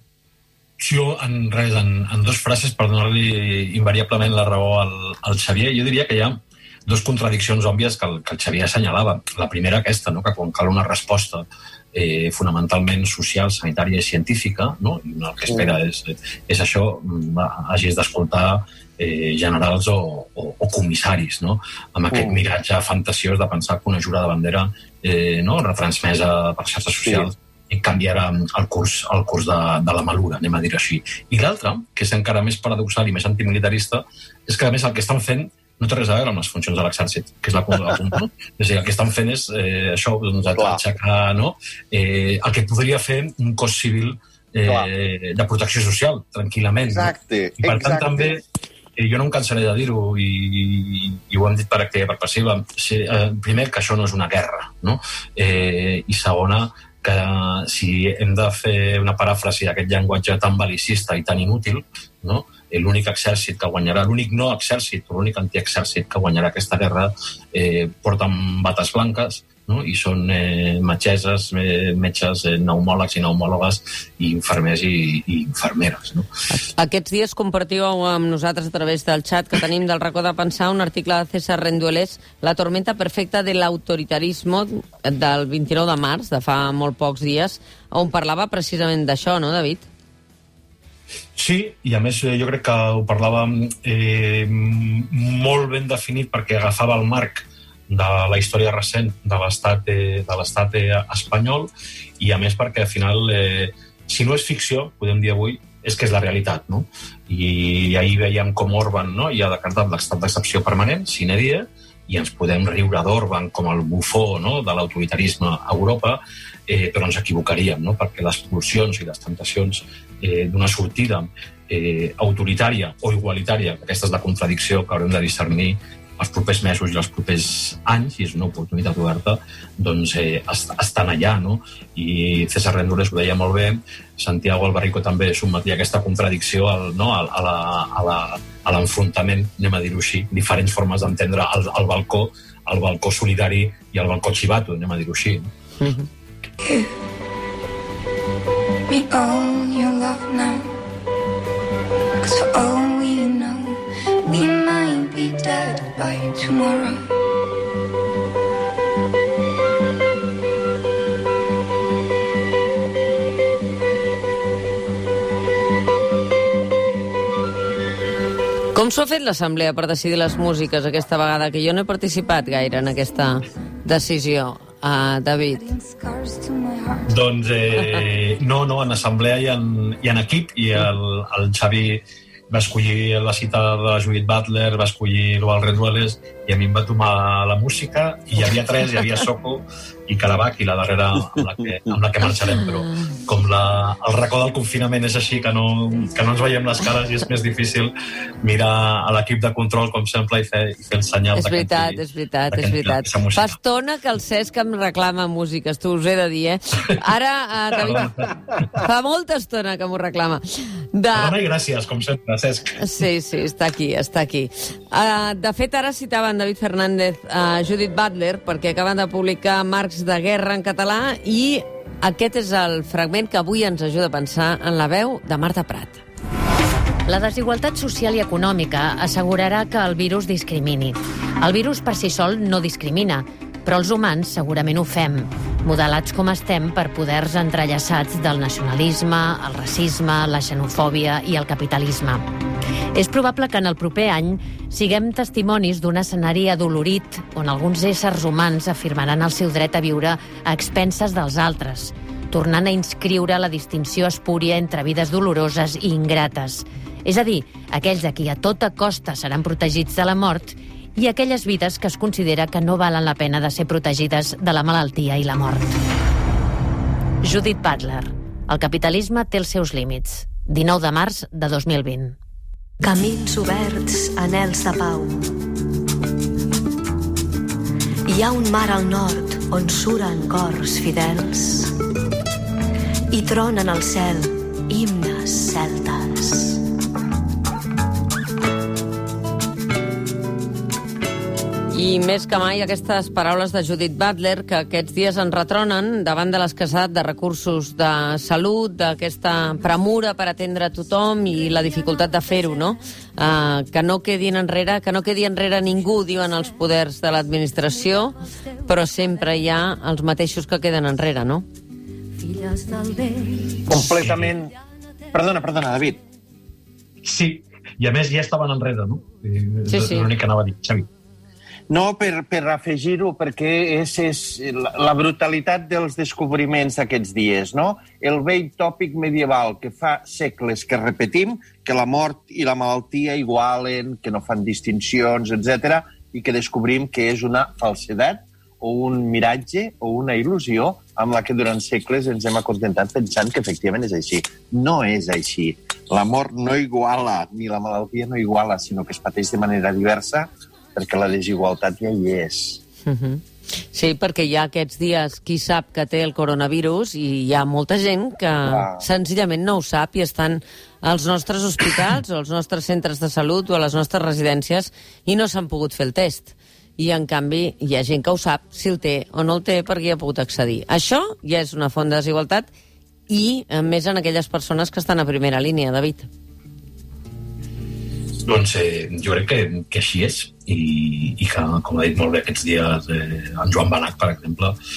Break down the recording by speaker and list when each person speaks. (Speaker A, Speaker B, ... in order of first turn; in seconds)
Speaker A: 0.8-48.4, 49.0-76.3, 91.4-145.5, 177.1-203.6, 207.8-208.7, 211.1-212.8, 313.8-314.3, 317.0-320.9, 378.2-384.6
Speaker B: 15.5-15.8, 22.1-22.4, 27.1-27.3, 40.5-40.8, 46.9-48.4, 191.4-192.0, 313.7-314.6, 315.1-316.0, 321.7-352.6, 358.4-358.9
Speaker C: 76.5-89.9, 145.8-146.1, 168.7-175.6, 192.5-193.1, 201.3-208.1, 208.7-211.3, 212.8-226.0, 291.7-311.5, 319.7-320.1, 352.9-372.5, 373.1-376.1
Speaker D: 146.6-146.9, 148.9-150.7, 152.2-157.1, 175.5-177.1
Speaker E: 227.1-242.3, 242.9-265.8, 267.2-272.2
Speaker F: 272.8-275.5, 278.1-281.8, 283.1-286.6, 312.2-313.6